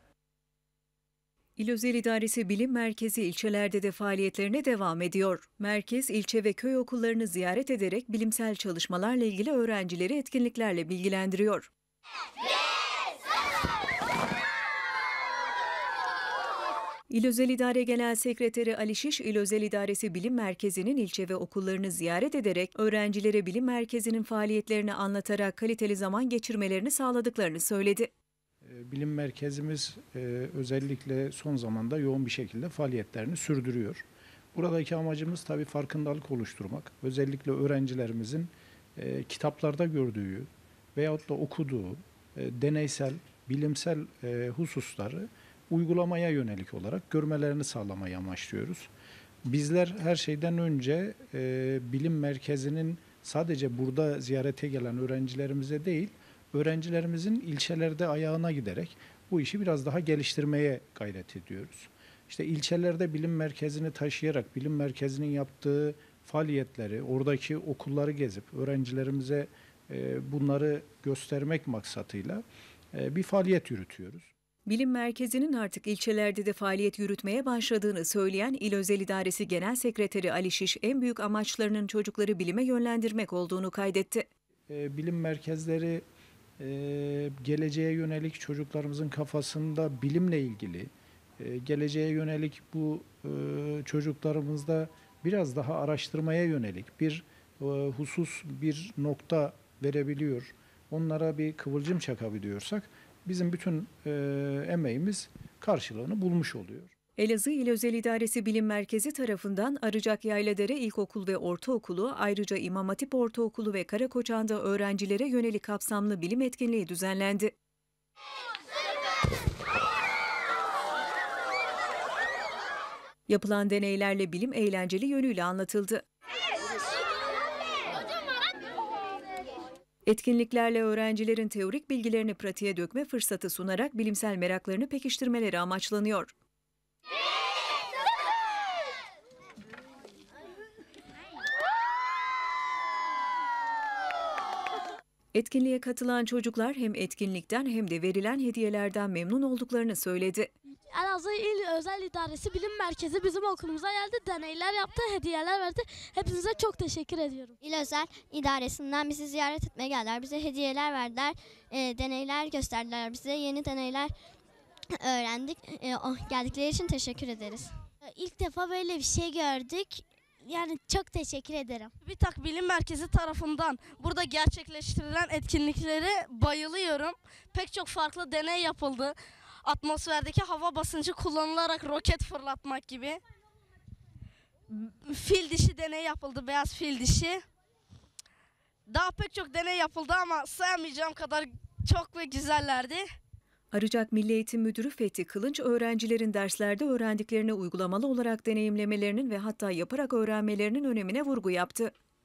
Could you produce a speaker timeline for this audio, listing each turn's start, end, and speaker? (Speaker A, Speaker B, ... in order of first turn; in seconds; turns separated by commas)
Speaker A: 1.6-11.7, Speaker A: 17.1-28.1, Speaker B: 28.6-48.9, Speaker B: 49.4-74.3, Speaker A: 74.7-84.3, Speaker B: 84.7-86.0, Speaker B: 86.6-106.9, Speaker A: 107.2-117.5, Speaker A: 123.3-126.0, Speaker A: 130.1-136.3, Speaker A: 145.3-150.5, Speaker C: 150.9-157.6, Speaker D: 157.6-164.1, Speaker D: 165.0-167.8, Speaker C: 168.0-171.9, Speaker E: 172.0-183.2, Speaker E: 184.7-187.4, Speaker E: 188.9-193.0, Speaker A: 193.7-201.9